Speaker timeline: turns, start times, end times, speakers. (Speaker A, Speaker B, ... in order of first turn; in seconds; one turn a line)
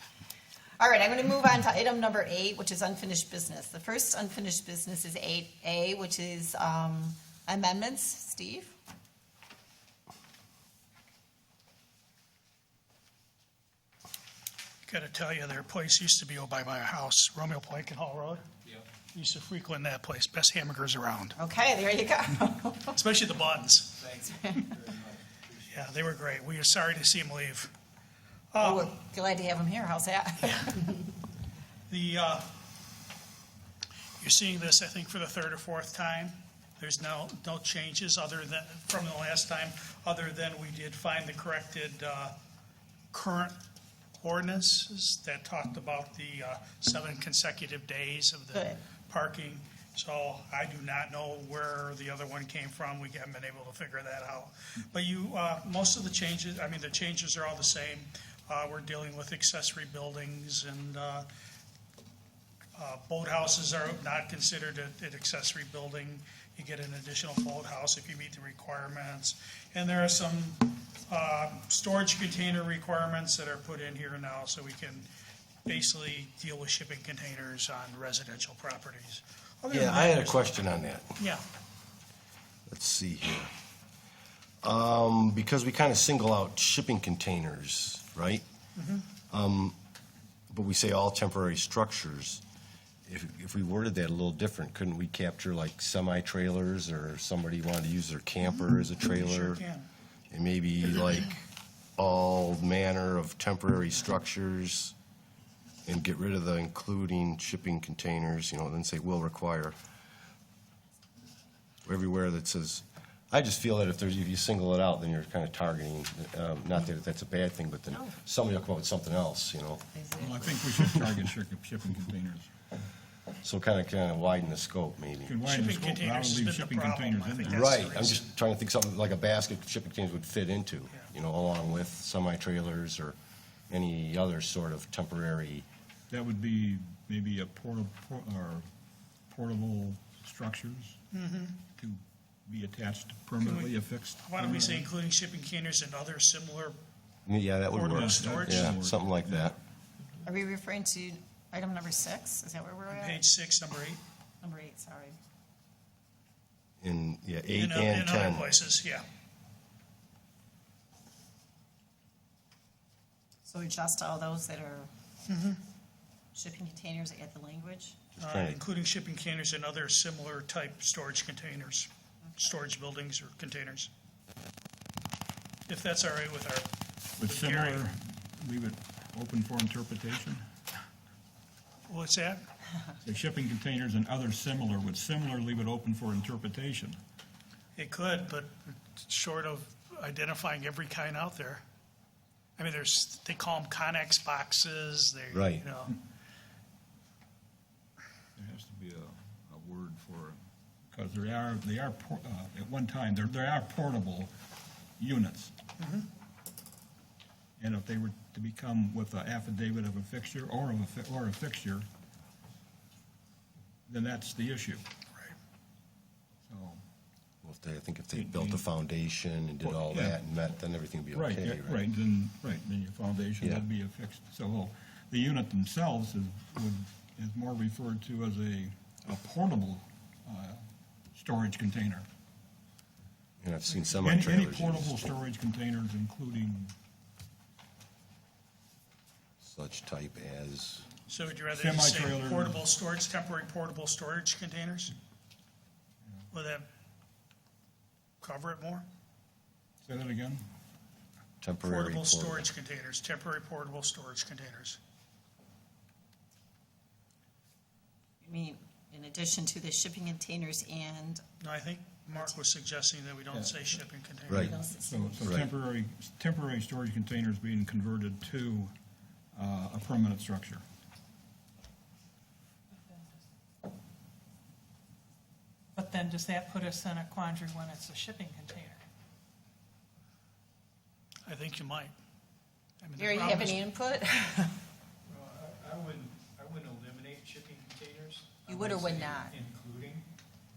Speaker A: 0.8-8.7
Speaker B: 14.8-18.4
Speaker B: 19.1-21.3
Speaker A: 21.4-22.9
Speaker B: 22.9-24.0
Speaker C: 24.0-25.6
Speaker A: 24.2-24.7
Speaker B: 25.7-27.7
Speaker B: 28.5-28.9
Speaker A: 28.6-31.0
Speaker B: 31.9-32.5
Speaker B: 34.2-42.4
Speaker B: 43.1-43.6
Speaker B: 44.2-61.3
Speaker A: 48.5-48.8
Speaker B: 62.7-75.1
Speaker B: 75.7-80.5
Speaker D: 79.7-81.2
Speaker D: 82.7-83.5
Speaker D: 84.6-88.4
Speaker B: 88.8-89.1
Speaker D: 89.3-89.8
Speaker D: 90.5-92.4
Speaker D: 93.0-99.6
Speaker B: 99.2-99.9
Speaker D: 100.3-101.4
Speaker D: 102.0-104.9
Speaker D: 105.8-109.8
Speaker D: 111.8-119.9
Speaker A: 119.9-120.7
Speaker E: 120.2-122.5
Speaker D: 123.4-125.4
Speaker E: 125.2-127.9
Speaker B: 125.4-128.2
Speaker D: 127.4-133.2
Speaker D: 133.7-135.7
Speaker E: 136.1-138.7
Speaker E: 139.3-141.0
Speaker B: 141.1-141.6
Speaker E: 141.8-144.9
Speaker B: 143.4-146.8
Speaker D: 147.2-149.6
Speaker B: 147.7-148.7
Speaker E: 147.9-149.5
Speaker A: 150.2-153.2
Speaker B: 152.9-154.0
Speaker A: 154.4-155.2
Speaker D: 156.8-158.5
Speaker B: 157.5-159.0
Speaker A: 163.4-164.9
Speaker B: 165.3-165.6
Speaker A: 166.3-167.9
Speaker D: 168.1-168.6
Speaker B: 168.2-173.9
Speaker B: 175.7-177.8
Speaker E: 177.2-180.5
Speaker B: 181.9-182.4
Speaker E: 183.0-187.0
Speaker B: 187.8-191.6
Speaker B: 192.6-195.9
Speaker D: 195.3-195.7
Speaker E: 198.4-200.4
Speaker E: 200.9-204.3
Speaker E: 205.0-205.5
Speaker B: 205.8-206.1
Speaker E: 207.6-211.9
Speaker E: 213.9-214.8
Speaker E: 216.4-216.8
Speaker D: 217.4-221.8
Speaker E: 218.1-218.6
Speaker E: 219.6-220.2
Speaker E: 221.1-232.1
Speaker D: 233.4-235.0
Speaker E: 234.0-236.7
Speaker D: 239.4-240.9
Speaker B: 241.1-244.9
Speaker E: 241.5-242.6
Speaker B: 246.3-246.7
Speaker B: 248.2-248.8
Speaker E: 249.8-250.4
Speaker D: 251.4-252.5
Speaker B: 251.6-254.8
Speaker A: 258.2-261.2
Speaker B: 261.4-264.6
Speaker E: 263.3-263.6
Speaker D: 264.3-264.6
Speaker A: 264.3-265.2
Speaker E: 264.7-268.7
Speaker D: 265.2-265.5
Speaker E: 269.3-270.6
Speaker F: 275.8-278.8
Speaker B: 281.2-281.9
Speaker B: 282.8-283.6
Speaker A: 283.0-284.6
Speaker C: 285.1-290.1
Speaker A: 288.5-289.4